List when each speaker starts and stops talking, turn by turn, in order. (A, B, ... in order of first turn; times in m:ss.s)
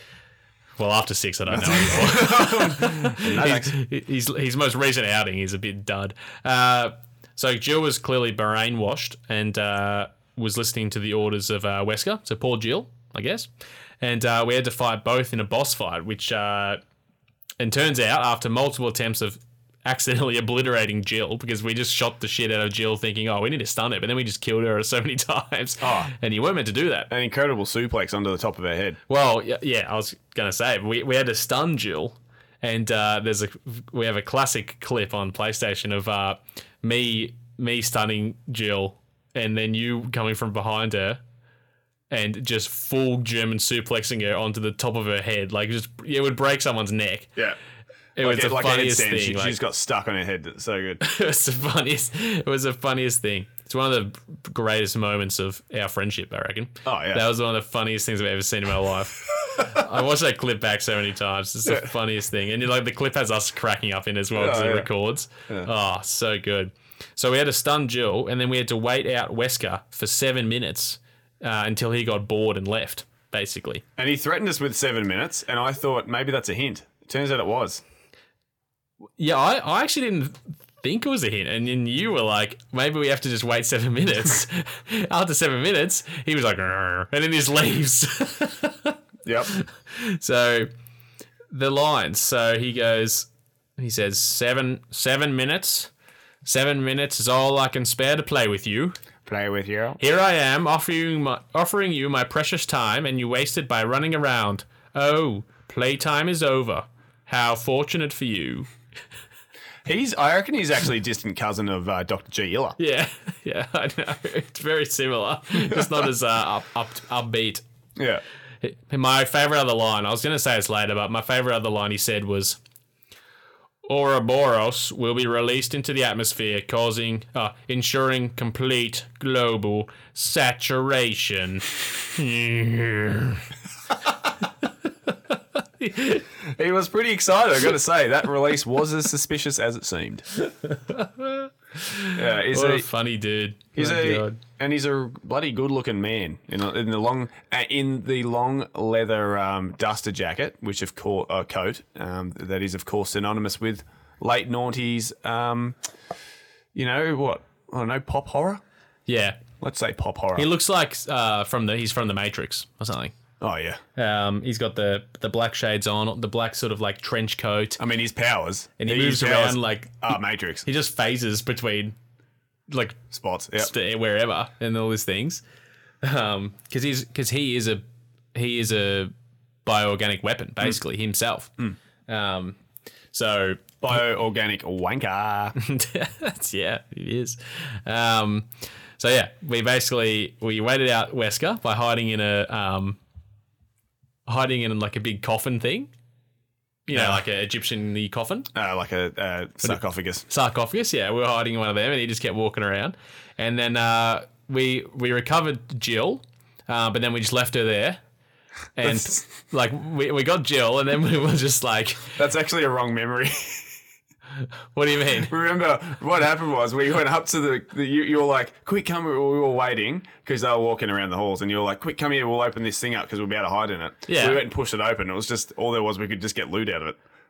0:00.8-0:13.5 A
0:01.5-0:03.8 B
0:14.0-0:16.8 A
0:17.6-0:27.1 A
0:25.8-0:26.1 B
0:27.1-0:29.0 B
0:29.1-0:41.2 A
0:42.1-0:47.3 A
0:48.2-0:49.6 A
0:48.2-0:51.0 B
0:51.0-1:13.8 A
0:56.8-0:57.3 B
1:04.4-1:04.9 B
1:14.0-1:17.8 B
1:19.2-1:29.0 A
1:29.2-1:29.5 B
1:29.5-1:30.7 A
1:31.5-1:35.9 A
1:36.4-1:39.0 A
1:39.3-1:40.0 B
1:40.0-1:48.7 A
1:49.8-1:52.8 B
1:52.8-1:57.6 A
1:55.6-1:55.9 B
1:58.0-1:58.2 B
1:58.6-2:02.6 A
2:03.9-2:13.5 A
2:15.1-2:16.2 A
2:16.4-2:20.3 B
2:20.4-2:24.4 A
2:22.1-2:22.9 B
2:23.8-2:35.8 B
2:36.8-2:38.6 B
2:39.1-2:39.4 A
2:39.6-2:40.5 B
2:40.4-2:43.1 A
2:43.4-2:43.8 B
2:44.0-2:47.8 A
2:47.8-2:50.7 B
2:48.8-2:50.1 A
2:50.6-2:52.0 A
2:52.7-2:53.1 A
2:53.1-2:53.7 B
2:53.6-2:55.4 A
2:56.0-2:57.8 A
2:58.3-2:59.1 A
2:59.6-3:01.6 A
3:02.1-3:02.6 A
3:03.1-3:03.7 A
3:03.8-3:05.6 B
3:05.6-3:08.5 A
3:09.0-3:13.0 A
3:14.3-3:15.9 A
3:16.9-3:17.2 B
3:16.9-3:18.5 A
3:18.5-3:20.3 B
3:19.6-3:28.0 A
3:28.8-3:32.2 A
3:28.8-3:29.2 B
3:32.2-3:33.8 B
3:34.7-3:35.3 A
3:35.3-3:47.0 B
3:44.1-3:44.4 A